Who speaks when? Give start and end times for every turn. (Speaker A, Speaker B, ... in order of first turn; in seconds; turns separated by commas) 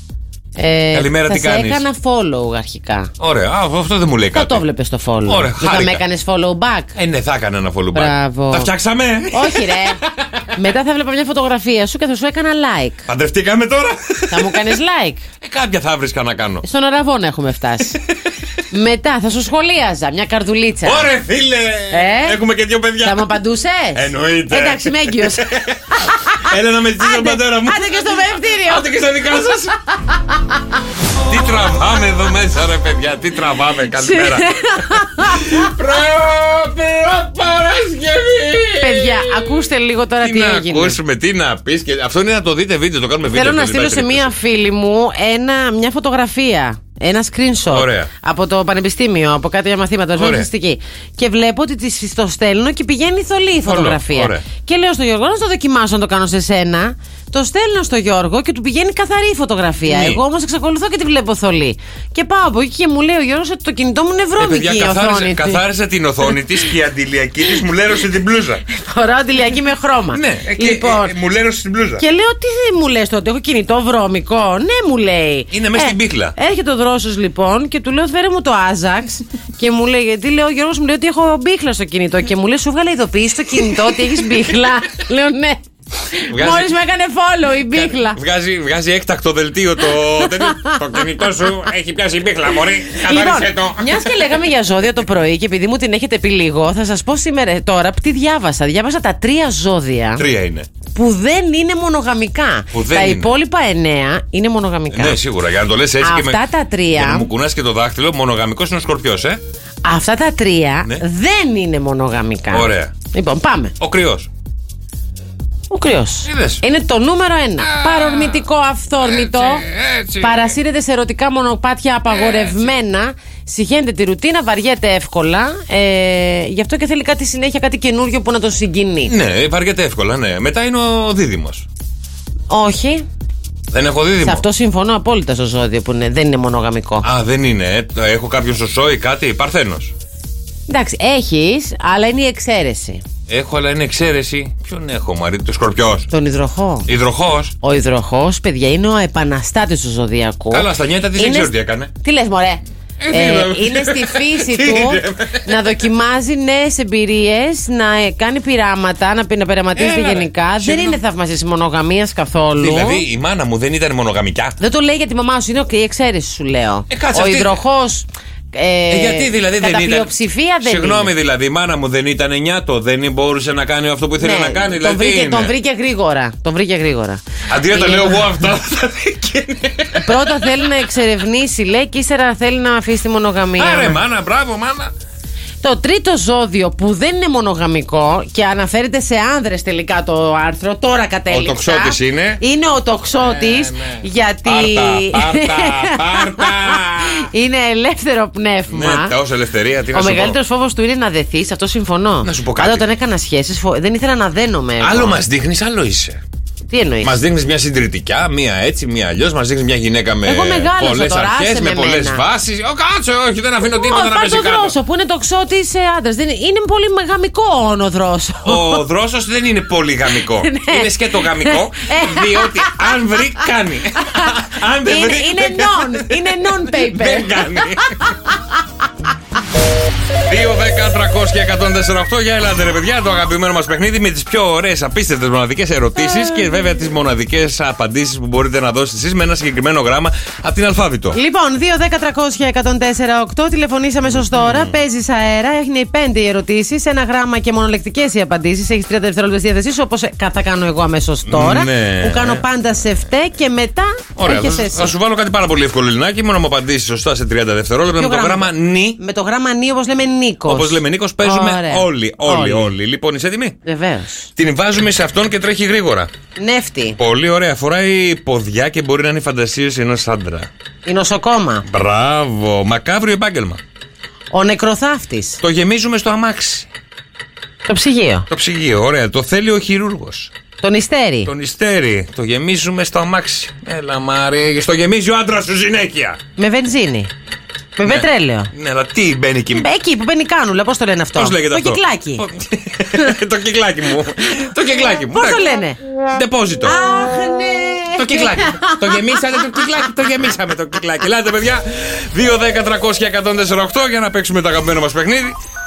Speaker A: 0.6-3.1, Speaker B: 0.9-1.8, Speaker B: 3.2-4.6, Speaker A: 4.3-6.9, Speaker B: 5.2-6.0, Speaker B: 6.9-10.4, Speaker A: 7.9-8.7, Speaker A: 9.3-10.0, Speaker A: 10.5-13.1, Speaker B: 13.1-14.7, Speaker A: 14.3-15.2, Speaker B: 15.4-16.6, Speaker A: 16.6-18.0, Speaker A: 18.7-21.1, Speaker B: 20.8-23.3, Speaker A: 21.9-22.4, Speaker A: 23.0-25.5, Speaker B: 23.9-29.8, Speaker A: 26.0-28.9, Speaker B: 31.2-39.6, Speaker A: 34.0-35.7, Speaker A: 38.8-41.0, Speaker B: 40.2-44.3, Speaker A: 43.3-65.6, Speaker B: 47.7-48.1, Speaker B: 50.2-50.5, Speaker B: 53.6-54.4, Speaker B: 59.9-60.2, Speaker B: 64.4-68.6, Speaker A: 68.7-71.1, Speaker B: 70.1-72.0, Speaker A: 72.0-88.2, Speaker B: 75.5-76.3, Speaker B: 83.7-84.4, Speaker B: 86.3-86.7, Speaker B: 87.7-94.2, Speaker A: 90.2-90.8, Speaker A: 92.9-100.2, Speaker B: 100.2-100.7, Speaker A: 100.9-105.2, Speaker B: 102.7-103.3, Speaker B: 104.9-109.4, Speaker A: 106.0-107.3, Speaker A: 109.8-113.7, Speaker B: 112.5-112.9, Speaker B: 113.8-114.3, Speaker A: 115.7-119.7, Speaker B: 116.2-116.6, Speaker B: 117.6-118.5, Speaker B: 119.0-120.5, Speaker A: 120.2-129.1, Speaker B: 122.1-122.7, Speaker B: 129.0-131.7, Speaker A: 132.5-133.0, Speaker B: 133.7-134.4, Speaker A: 134.2-137.1, Speaker B: 137.0-139.9, Speaker A: 140.7-143.0, Speaker B: 143.3-146.1, Speaker A: 146.1-146.9, Speaker B: 146.8-147.5, Speaker A: 147.6-163.0, Speaker B: 150.5-151.9, Speaker B: 153.0-155.7, Speaker B: 159.7-161.0, Speaker B: 162.6-164.6, Speaker A: 164.6-171.1, Speaker B: 166.9-167.6, Speaker B: 168.9-175.5, Speaker A: 174.2-178.3, Speaker B: 177.5-180.5, Speaker A: 180.0-184.0, Speaker B: 183.6-184.9, Speaker A: 185.6-199.1, Speaker B: 191.3-192.4, Speaker B: 193.2-197.3, Speaker B: 198.7-200.4, Speaker A: 199.9-205.2, Speaker B: 202.2-202.8, Speaker B: 204.8-206.2, Speaker A: 206.7-207.2, Speaker B: 207.0-214.7, Speaker A: 210.2-212.2, Speaker A: 213.8-218.8, Speaker B: 218.4-228.1, Speaker A: 220.2-222.9, Speaker A: 224.0-224.3, Speaker A: 224.8-228.2, Speaker B: 230.3-241.2, Speaker A: 241.1-254.9, Speaker B: 244.2-244.8, Speaker B: 251.2-252.4, Speaker B: 254.2-259.0, Speaker A: 257.9-262.7, Speaker B: 260.5-263.6, Speaker A: 263.6-264.3, Speaker B: 264.4-266.1, Speaker A: 266.4-267.0, Speaker B: 267.0-270.5, Speaker A: 270.9-271.6, Speaker B: 271.6-273.6, Speaker A: 274.3-275.4, Speaker B: 275.4-276.7, Speaker A: 277.7-278.3, Speaker B: 278.3-280.3, Speaker A: 280.6-281.3, Speaker B: 281.2-286.2, Speaker A: 286.4-287.1, Speaker A: 287.8-288.5, Speaker B: 287.8-289.7, Speaker A: 289.5-292.2, Speaker B: 291.1-295.5, Speaker A: 295.1-295.8, Speaker B: 296.1-296.8, Speaker A: 296.6-299.6, Speaker B: 297.9-305.4